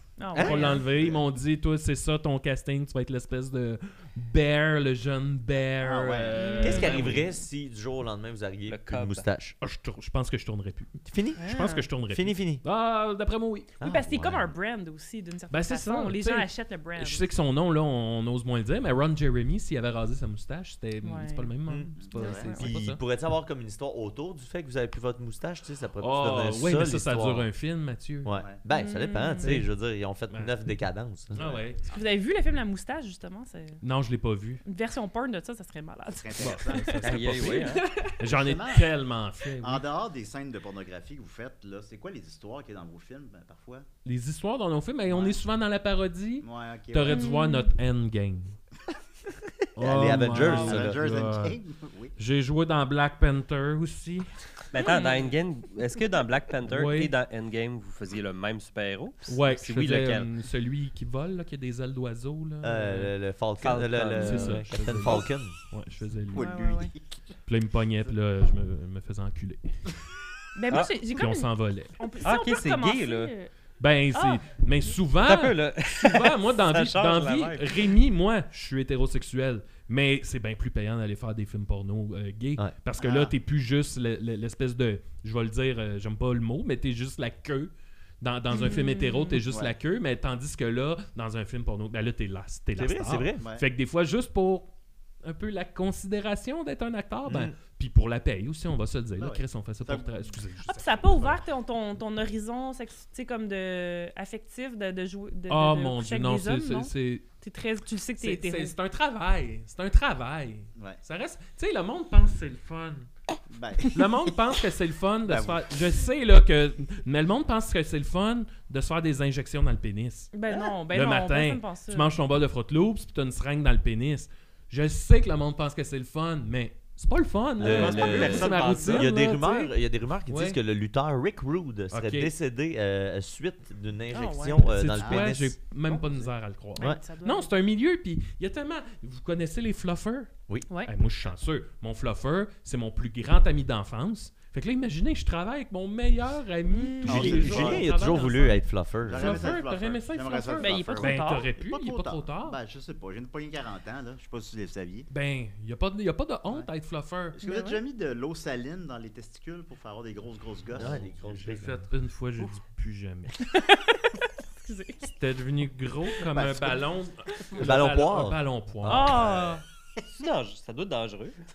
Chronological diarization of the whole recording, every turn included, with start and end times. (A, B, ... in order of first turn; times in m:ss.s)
0:00.2-0:00.8 A
0:00.4-0:00.7 B
0:00.4-0:07.3 C
0:00.6-0:01.2 D
0:05.8-0:07.2 D
0:06.3-0:07.0 A
0:06.6-0:09.6 B
0:08.7-0:09.3 E
0:09.6-0:13.7 C
0:11.1-0:11.5 B
0:11.4-0:11.9 A
0:12.1-0:12.6 B
0:13.8-0:14.5 B
0:13.8-0:17.3 A
0:15.5-0:23.0 C
0:21.0-0:21.5 A
0:21.7-0:21.9 B
0:22.0-0:22.5 D
0:22.1-0:22.7 A
0:22.5-0:27.5 B
0:26.0-0:28.4 C
0:28.2-0:31.5 B
0:28.7-0:29.6 A
0:29.4-0:29.7 C
0:30.3-0:30.6 C
0:31.3-0:31.9 C
0:31.4-0:31.6 D
0:31.9-0:33.8 A
0:33.8-0:34.6 C
0:34.6-0:36.9 A
0:36.1-0:37.7 D
0:36.4-0:39.8 C
0:37.0-0:37.8 E
0:37.2-0:37.8 B
0:37.6-0:38.2 A
0:38.2-0:39.0 D
0:39.6-0:43.9 D
0:44.0-0:48.6 C
0:45.1-0:45.4 D
0:46.4-0:47.2 D
0:47.1-0:47.7 A
0:49.8-0:51.6 C
0:49.8-0:51.0 B
0:50.3-0:52.2 D
0:52.2-0:54.3 C
0:54.7-1:00.3 E
0:54.8-0:55.3 A
0:56.6-0:57.1 C
0:59.3-1:03.1 C
1:02.6-1:05.6 B
1:03.6-1:04.7 E
1:04.2-1:06.6 C
1:06.3-1:07.4 D
1:06.4-1:06.9 A
1:07.5-1:09.7 C
1:10.6-1:13.5 A
1:11.1-1:12.0 C
1:12.2-1:13.3 E
1:13.8-1:34.7 C
1:14.1-1:14.4 A
1:15.2-1:18.0 E
1:23.0-1:23.3 D
1:28.5-1:29.4 A
1:29.4-1:29.8 D
1:32.8-1:33.4 B
1:33.4-1:33.7 D
1:35.2-1:41.4 C
1:37.3-1:37.6 B
1:39.2-1:40.4 D
1:40.7-1:48.7 A
1:45.5-1:47.3 C
1:48.2-1:53.1 C
1:53.5-1:54.0 D
1:53.9-2:00.3 C
1:55.3-1:55.7 D
2:00.3-2:02.1 A
2:00.9-2:09.7 C
2:07.6-2:15.6 B
2:07.6-2:09.1 E
2:10.3-2:10.6 C
2:11.9-2:12.3 C
2:14.1-2:14.7 A
2:14.7-2:28.6 C
2:14.9-2:15.3 D
2:16.8-2:17.5 A
2:26.7-2:27.4 A
2:27.1-2:28.3 D
2:27.1-2:29.6 B
2:29.0-2:35.1 D
2:29.2-2:32.6 C
2:30.6-2:31.5 A
2:35.1-2:37.4 C
2:37.3-2:41.2 D
2:37.4-2:37.8 A
2:40.8-2:41.9 B
2:40.9-2:43.4 C
2:43.4-2:45.1 A
2:45.0-2:49.2 C
2:46.3-2:46.8 D
2:47.6-2:49.2 B
2:48.9-2:49.6 A
2:49.2-2:49.6 D
2:50.1-2:51.4 E